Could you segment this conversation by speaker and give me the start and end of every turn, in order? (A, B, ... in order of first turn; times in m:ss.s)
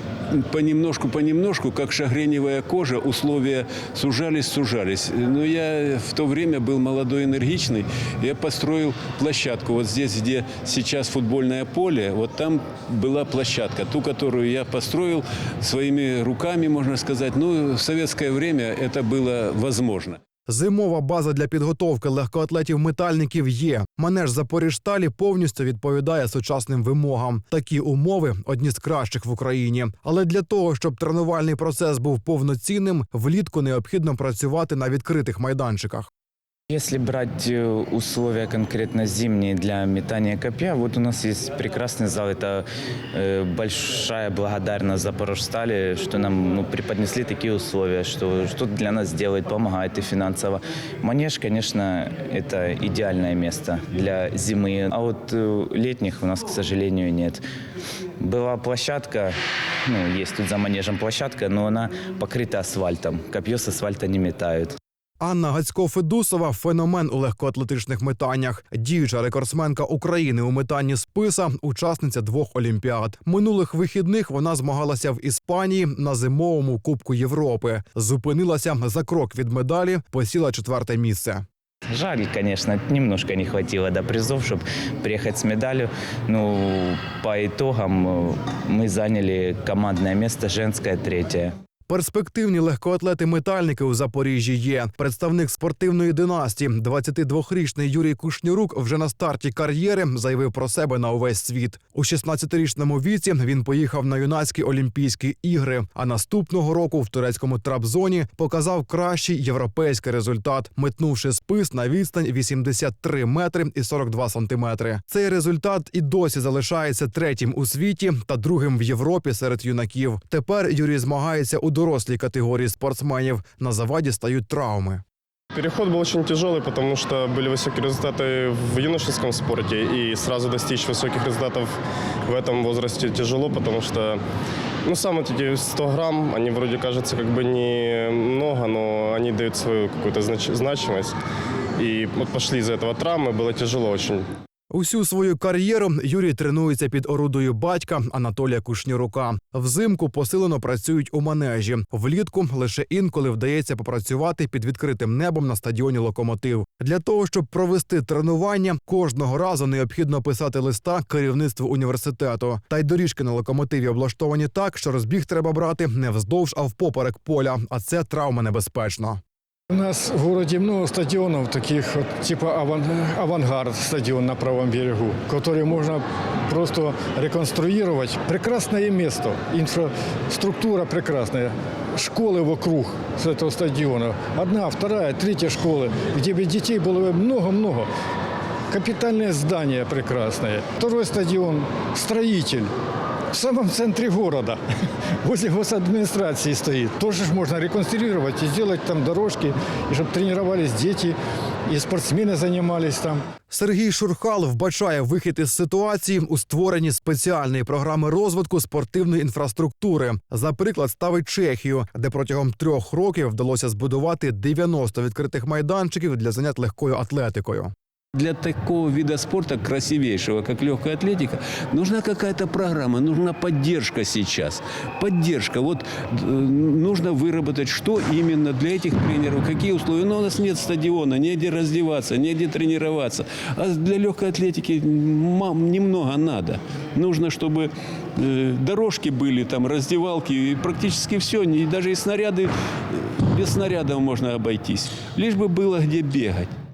0:00.3-0:20.2 A
0:20.5-0:36.1 B
0:36.7-0:57.4 C
0:58.2-0:59.3 C
0:59.9-1:04.8 C
1:05.2-1:21.4 B
1:21.9-1:31.5 C
1:31.9-2:05.0 B
2:05.5-2:14.2 D
2:14.8-2:21.2 D
2:21.8-2:24.3 D
2:24.7-2:49.2 B
2:49.7-3:07.9 E
3:08.7-3:12.7 E
3:13.3-3:14.6 E
3:15.2-3:21.2 E
3:21.7-3:23.2 E
3:23.5-3:37.7 B
3:38.2-4:06.5 A